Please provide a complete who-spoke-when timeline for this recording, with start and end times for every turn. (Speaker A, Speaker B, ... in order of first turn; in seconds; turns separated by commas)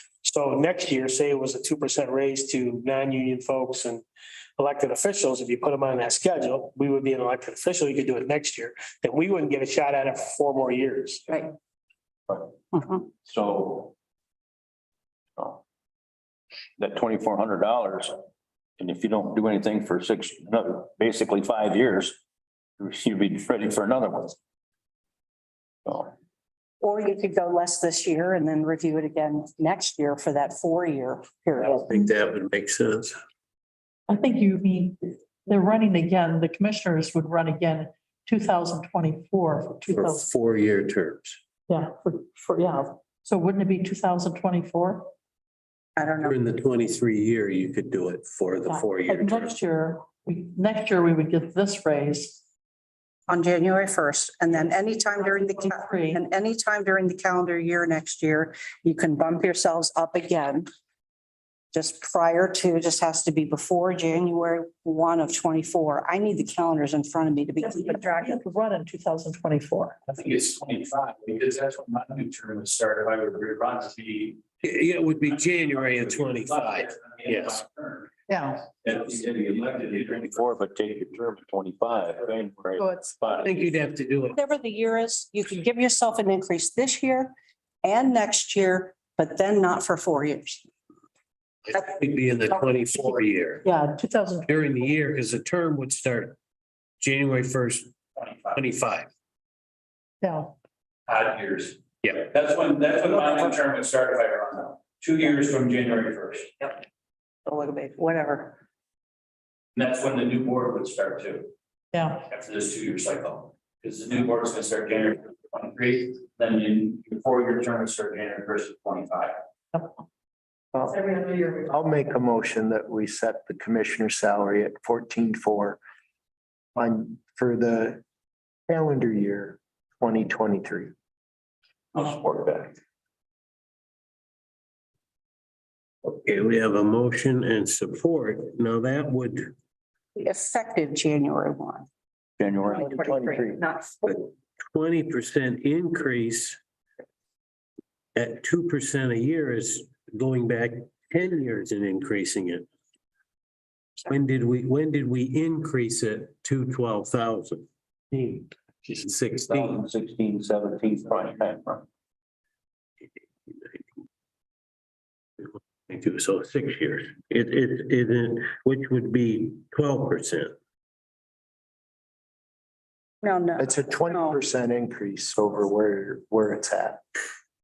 Speaker A: 0.2-4.0, Speaker A: 4.6-11.5, Speaker B: 12.3-13.9, Speaker B: 16.8-18.1, Speaker B: 18.8-22.2, Speaker B: 22.8-24.4, Speaker B: 25.9-26.1, Speaker C: 26.8-31.8, Speaker D: 31.9-33.1, Speaker E: 34.1-40.2, Speaker D: 39.9-41.4, Speaker E: 41.7-45.1, Speaker C: 46.0-46.3, Speaker D: 46.2-49.5, Speaker E: 48.7-52.4, Speaker C: 53.3-60.7, Speaker E: 55.2-56.2, Speaker C: 61.7-68.4, Speaker E: 67.6-70.0, Speaker F: 70.1-74.4, Speaker D: 74.6-77.6, Speaker F: 75.8-78.1, Speaker E: 78.3-78.7, Speaker F: 78.8-80.4, Speaker B: 80.2-83.7, Speaker E: 82.8-83.2, Speaker D: 83.4-84.4, Speaker C: 84.3-90.7, Speaker D: 91.7-93.7, Speaker E: 93.6-94.5, Speaker D: 94.4-96.3, Speaker D: 97.0-97.9, Speaker F: 98.2-98.6, Speaker D: 98.5-99.1, Speaker E: 100.2-100.5, Speaker F: 101.1-106.5, Speaker C: 107.5-108.5, Speaker F: 109.7-111.5, Speaker E: 111.9-112.2, Speaker F: 112.2-119.3, Speaker G: 120.7-125.8, Speaker G: 126.8-128.0, Speaker G: 128.7-130.9, Speaker B: 131.9-132.8, Speaker D: 136.1-139.5, Speaker C: 140.1-141.9, Speaker B: 142.4-142.9, Speaker C: 142.6-144.1, Speaker G: 142.8-143.5, Speaker D: 144.1-146.6, Speaker D: 148.1-152.6, Speaker D: 154.1-158.5, Speaker D: 159.1-159.8, Speaker B: 159.5-161.8, Speaker D: 165.9-170.5, Speaker C: 173.2-174.4, Speaker G: 173.6-177.0